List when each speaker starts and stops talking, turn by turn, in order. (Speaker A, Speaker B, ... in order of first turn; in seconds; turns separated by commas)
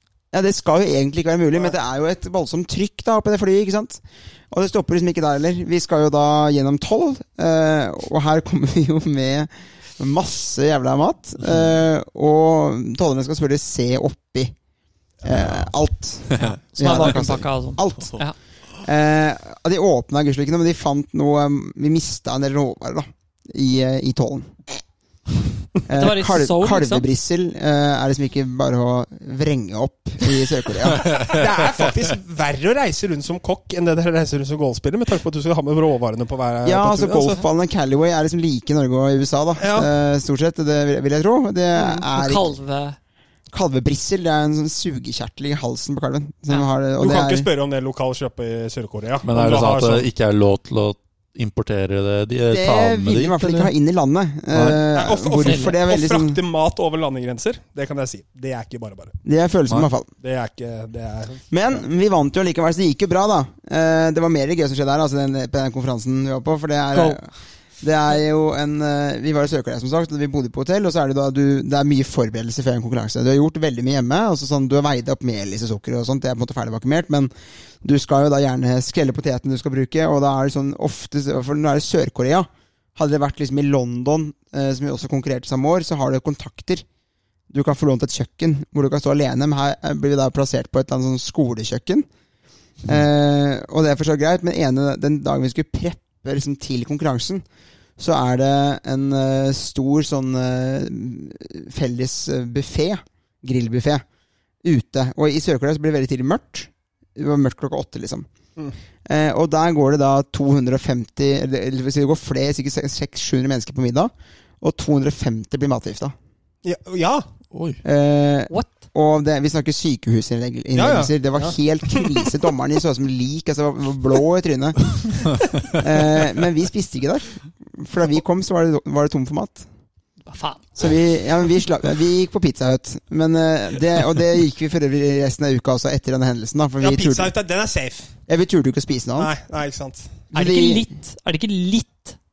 Speaker A: 0.3-14.6, Speaker B: 11.4-11.7, Speaker A: 15.2-18.2, Speaker B: 15.3-15.6, Speaker B: 16.3-16.6, Speaker C: 16.7-18.4, Speaker A: 18.8-24.6, Speaker A: 25.9-31.2, Speaker C: 25.9-27.1, Speaker D: 31.2-37.4, Speaker A: 36.6-42.5, Speaker D: 39.6-39.9, Speaker C: 42.0-43.0, Speaker A: 43.5-47.5, Speaker D: 47.0-50.1, Speaker B: 49.2-53.7, Speaker A: 52.5-56.4, Speaker B: 54.5-54.8, Speaker D: 54.9-59.2, Speaker C: 55.4-55.8, Speaker A: 59.2-60.1, Speaker D: 60.2-61.6, Speaker A: 61.5-67.3, Speaker C: 66.9-67.2, Speaker A: 67.8-77.3, Speaker A: 77.8-86.8, Speaker A: 87.5-92.1, Speaker A: 92.8-97.4, Speaker A: 98.0-104.0, Speaker A: 104.6-108.3, Speaker A: 109.1-116.1, Speaker D: 116.6-117.3, Speaker B: 117.5-117.8, Speaker A: 117.8-129.7, Speaker D: 120.7-122.3, Speaker C: 130.3-130.7, Speaker A: 130.8-137.3, Speaker D: 136.8-138.1, Speaker A: 138.3-139.3, Speaker D: 139.2-140.2, Speaker A: 140.3-140.9, Speaker C: 140.3-142.2